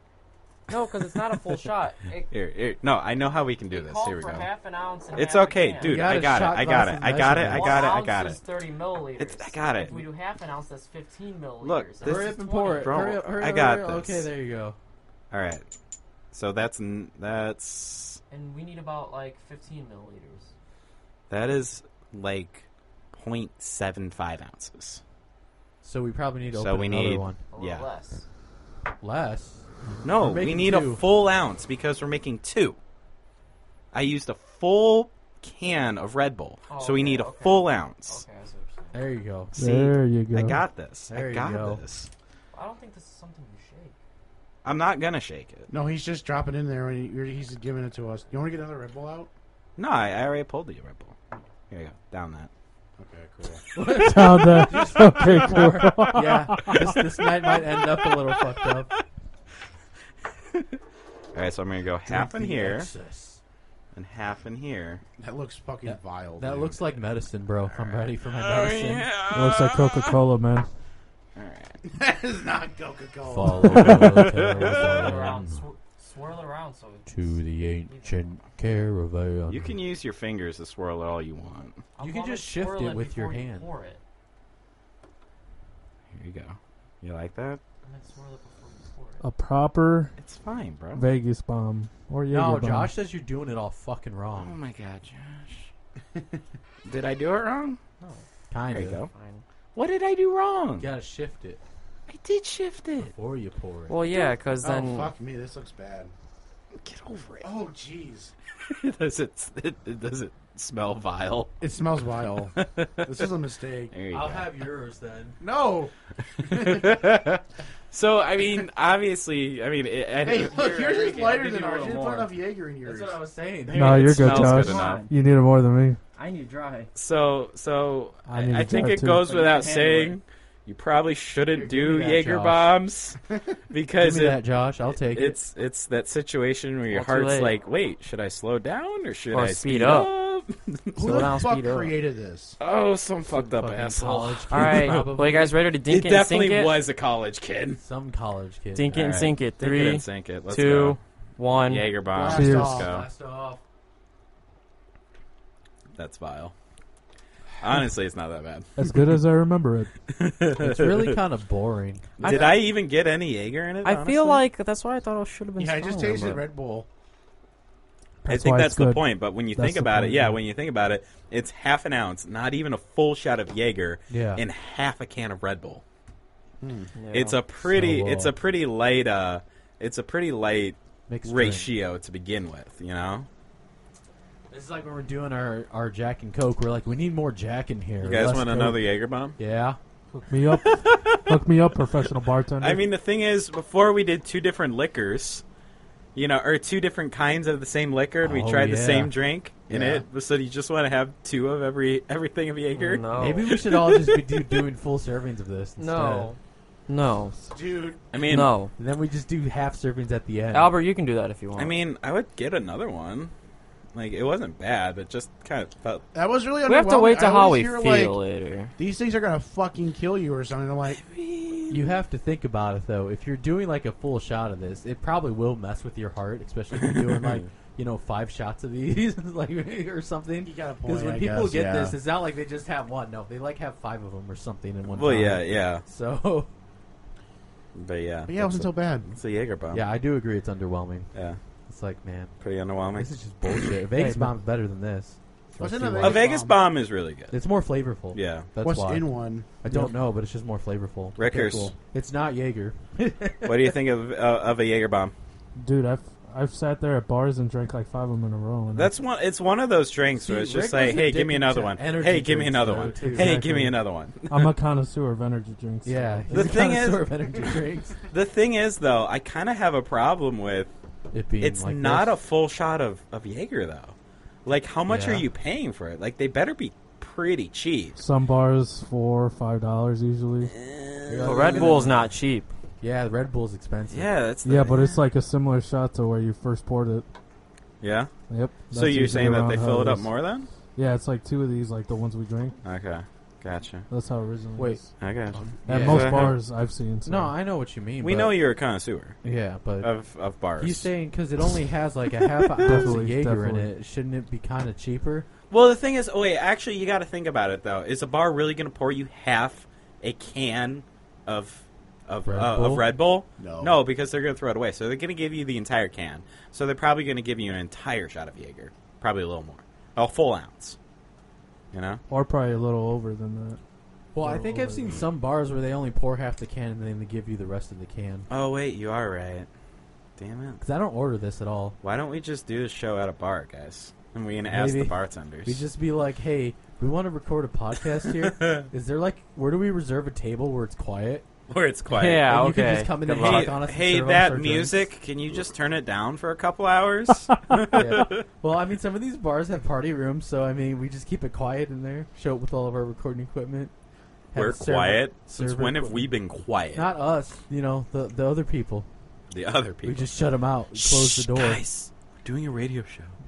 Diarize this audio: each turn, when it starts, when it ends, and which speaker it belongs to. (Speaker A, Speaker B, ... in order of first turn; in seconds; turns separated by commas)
Speaker A: 0.7-2.3, Speaker B: 2.3-4.5, Speaker A: 3.7-6.0, Speaker B: 5.1-8.4, Speaker C: 5.8-7.9, Speaker A: 7.5-13.1, Speaker B: 9.2-10.0, Speaker B: 11.6-14.3, Speaker C: 12.0-14.8, Speaker B: 15.3-15.6, Speaker B: 16.3-18.2, Speaker A: 18.3-20.5, Speaker B: 21.3-25.0, Speaker C: 25.8-27.4, Speaker B: 26.5-27.9, Speaker A: 27.5-28.3, Speaker C: 29.0-31.0, Speaker B: 30.0-32.8, Speaker B: 33.9-38.2, Speaker A: 36.7-39.1, Speaker C: 38.9-39.5, Speaker D: 39.6-40.6, Speaker B: 39.6-42.1, Speaker C: 41.1-41.8, Speaker A: 42.5-44.0, Speaker B: 44.6-45.7, Speaker E: 45.7-49.3, Speaker B: 49.8-51.2, Speaker B: 51.7-52.5, Speaker E: 53.0-53.6, Speaker C: 53.8-58.9, Speaker D: 54.0-57.0, Speaker B: 56.7-59.0, Speaker B: 60.5-60.8, Speaker B: 61.3-62.9, Speaker C: 62.1-63.4, Speaker B: 63.9-65.0, Speaker E: 65.2-66.8, Speaker C: 65.8-69.1, Speaker B: 67.7-70.2, Speaker D: 69.3-70.7, Speaker B: 71.4-71.8, Speaker E: 71.9-74.3, Speaker C: 73.2-75.6, Speaker B: 73.7-75.5, Speaker A: 74.7-78.3, Speaker C: 77.1-79.8, Speaker B: 79.5-81.8, Speaker A: 82.0-84.0, Speaker C: 82.0-83.7, Speaker B: 86.1-87.6, Speaker A: 87.8-89.2, Speaker D: 89.2-90.1, Speaker B: 90.2-91.0, Speaker D: 91.0-92.9, Speaker C: 92.3-94.6, Speaker B: 94.4-95.7, Speaker E: 96.2-96.4, Speaker B: 96.9-97.8, Speaker A: 98.0-98.3, Speaker C: 98.5-99.0, Speaker B: 98.7-99.1, Speaker A: 99.1-99.4, Speaker B: 99.7-100.9, Speaker C: 100.8-101.6, Speaker B: 102.1-103.1, Speaker C: 103.0-104.0, Speaker A: 103.9-105.1, Speaker E: 104.1-106.1, Speaker B: 106.8-107.5, Speaker E: 107.4-108.3, Speaker B: 108.7-111.5, Speaker E: 111.6-113.9, Speaker B: 112.6-113.3, Speaker B: 113.9-114.5, Speaker C: 114.1-115.4, Speaker E: 115.4-117.1, Speaker B: 116.4-122.0, Speaker E: 120.2-123.2, Speaker A: 120.7-122.3, Speaker A: 122.8-123.1, Speaker C: 122.9-124.5, Speaker B: 123.7-125.0, Speaker D: 123.7-126.0, Speaker A: 124.0-125.1, Speaker A: 126.2-126.9, Speaker B: 127.0-133.2, Speaker D: 128.3-129.3, Speaker A: 129.2-130.2, Speaker C: 131.5-132.8, Speaker B: 133.7-134.4, Speaker C: 133.9-135.4, Speaker B: 135.1-141.3, Speaker A: 136.9-137.5, Speaker A: 139.3-140.1, Speaker E: 141.0-142.6, Speaker A: 141.0-141.9, Speaker B: 142.6-145.1, Speaker C: 143.3-145.6, Speaker A: 144.5-146.8, Speaker B: 145.9-147.8, Speaker C: 147.8-149.0, Speaker A: 148.8-151.9, Speaker B: 148.9-151.0, Speaker B: 151.6-153.1, Speaker E: 152.1-152.9, Speaker D: 152.3-152.8, Speaker C: 152.4-153.6, Speaker B: 155.9-156.5, Speaker B: 157.6-158.7, Speaker D: 158.8-159.9, Speaker B: 160.1-161.2, Speaker C: 160.6-162.2, Speaker B: 162.2-164.4, Speaker A: 162.2-162.6, Speaker E: 162.2-162.5, Speaker A: 163.8-166.5, Speaker E: 165.6-166.9, Speaker D: 168.2-170.4, Speaker B: 168.3-175.8, Speaker C: 174.1-174.4, Speaker E: 176.6-176.9, Speaker A: 176.9-177.4, Speaker B: 177.1-183.3, Speaker C: 177.6-178.3, Speaker C: 181.1-181.7, Speaker C: 184.5-189.8, Speaker B: 188.0-189.4, Speaker D: 190.1-192.8, Speaker B: 190.6-191.4, Speaker B: 192.6-195.4, Speaker B: 196.2-204.2, Speaker C: 198.2-199.2, Speaker C: 199.7-200.0, Speaker A: 202.8-203.5, Speaker C: 203.2-206.3, Speaker A: 205.8-207.4, Speaker E: 207.5-208.0, Speaker B: 208.1-208.5, Speaker A: 208.2-208.7, Speaker C: 208.8-210.8, Speaker A: 210.5-211.8, Speaker B: 211.6-213.3, Speaker B: 213.9-216.1, Speaker E: 216.1-218.2, Speaker A: 216.7-218.7, Speaker E: 218.8-221.0, Speaker B: 220.9-221.9, Speaker C: 221.7-236.5, Speaker E: 230.4-232.0, Speaker B: 234.9-235.8, Speaker B: 237.8-239.8, Speaker E: 238.3-239.1, Speaker C: 239.7-241.1, Speaker B: 241.1-241.4, Speaker C: 241.7-242.3, Speaker B: 242.4-243.8, Speaker C: 242.9-246.3, Speaker D: 244.0-244.3, Speaker E: 245.6-246.6, Speaker B: 246.0-247.4, Speaker C: 247.3-253.8, Speaker B: 248.1-248.5, Speaker E: 248.6-249.5, Speaker B: 251.2-251.7, Speaker B: 253.4-255.1, Speaker D: 255.6-258.9, Speaker B: 258.7-264.5, Speaker C: 260.2-263.5, Speaker D: 263.0-266.5, Speaker C: 265.9-268.0, Speaker B: 266.3-267.1, Speaker B: 268.1-270.7, Speaker C: 271.1-272.2, Speaker B: 271.4-278.0, Speaker C: 274.9-275.3, Speaker D: 278.0-280.5, Speaker B: 280.5-281.9, Speaker C: 281.1-281.9, Speaker A: 281.2-282.5, Speaker C: 282.8-284.1, Speaker B: 283.9-285.0, Speaker D: 284.4-287.1, Speaker B: 287.8-288.1, Speaker D: 288.3-290.1, Speaker B: 288.7-290.5, Speaker D: 290.8-292.6, Speaker B: 292.6-293.9, Speaker D: 293.9-294.9, Speaker C: 294.6-294.8, Speaker B: 295.0-296.4, Speaker C: 295.4-296.4, Speaker D: 295.7-297.3, Speaker C: 297.1-298.4, Speaker B: 298.0-299.2, Speaker C: 299.2-299.9, Speaker B: 299.8-300.9, Speaker C: 300.6-305.3, Speaker D: 302.6-303.7, Speaker B: 302.6-302.9, Speaker B: 305.5-320.8, Speaker C: 312.3-312.9, Speaker E: 313.4-313.8, Speaker B: 321.7-322.0, Speaker D: 322.1-323.6, Speaker C: 324.1-328.3, Speaker D: 324.3-324.8, Speaker B: 328.3-329.5, Speaker B: 330.2-330.6, Speaker C: 330.6-331.8, Speaker B: 331.8-335.6, Speaker C: 334.5-341.3, Speaker B: 338.1-338.7, Speaker B: 341.5-342.3, Speaker A: 341.9-343.6, Speaker C: 342.1-344.9, Speaker B: 343.1-348.3, Speaker C: 347.7-353.7, Speaker C: 354.3-356.1, Speaker B: 354.3-356.9, Speaker C: 356.7-358.9, Speaker B: 359.3-360.2, Speaker C: 359.8-361.6, Speaker B: 360.7-363.1